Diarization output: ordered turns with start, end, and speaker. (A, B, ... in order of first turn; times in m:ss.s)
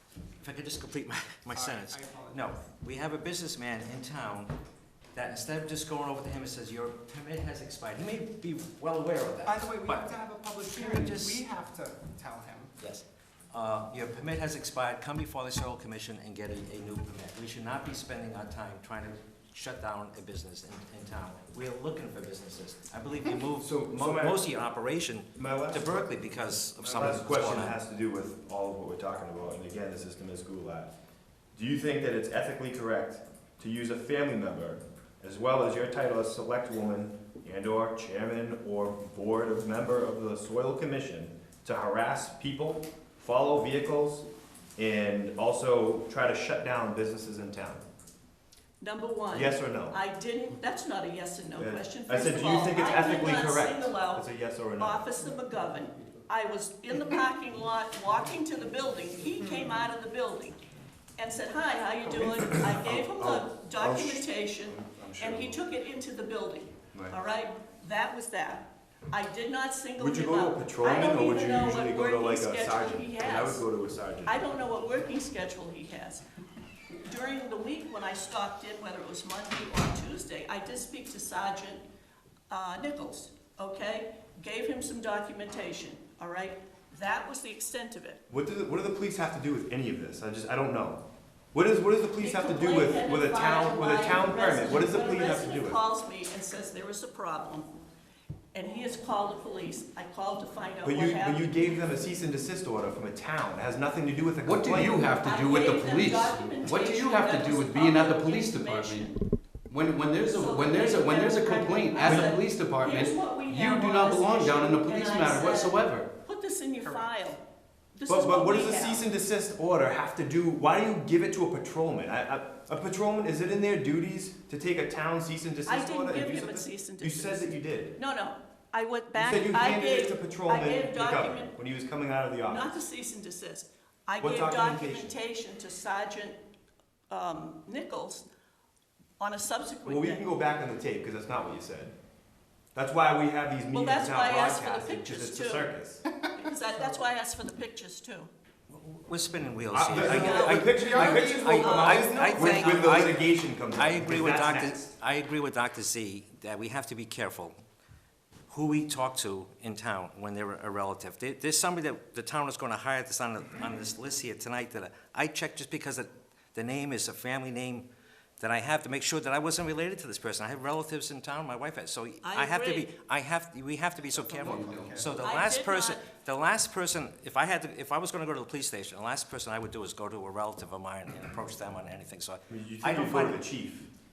0:00.4-0:04.5 A
0:01.5-0:02.5 B
0:05.2-0:10.1 A
0:09.4-0:12.7 B
0:10.7-0:11.4 A
0:12.8-0:27.8 A
0:23.6-0:24.5 C
0:25.4-0:25.9 C
0:26.8-0:30.9 C
0:31.6-0:44.3 C
0:44.8-0:47.8 C
0:48.8-0:54.2 D
0:49.3-0:50.0 C
0:51.6-0:55.0 C
0:54.8-1:00.6 D
1:01.2-1:13.6 D
1:02.2-1:05.6 C
1:10.0-1:14.4 C
1:14.2-1:16.2 D
1:17.0-1:21.8 D
1:22.5-1:28.2 D
1:28.3-1:35.8 C
1:32.2-1:37.7 D
1:38.5-1:41.8 D
1:40.8-1:45.0 C
1:44.4-1:49.1 E
1:45.2-1:49.2 D
1:49.7-1:56.1 E
1:50.3-1:57.4 D
1:56.8-1:57.3 B
1:58.0-1:59.1 D
1:58.1-2:08.0 C
2:05.6-2:11.6 D
2:09.1-2:12.8 C
2:12.4-2:16.4 D
2:14.2-2:15.1 C
2:17.1-2:18.3 D
2:19.2-2:20.3 D
2:19.8-2:21.9 C
2:22.8-2:26.0 C
2:23.7-2:25.7 D
2:26.1-2:26.5 B
2:26.4-2:28.3 D
2:28.7-2:37.6 A
2:29.7-2:34.8 C
2:30.0-2:32.4 D
2:30.1-2:33.1 B
2:38.5-2:47.9 A
2:48.4-3:03.4 A
2:52.2-2:52.9 D
2:54.0-2:55.1 B
2:54.4-2:55.1 E
2:55.2-2:56.0 D
3:02.5-3:03.9 C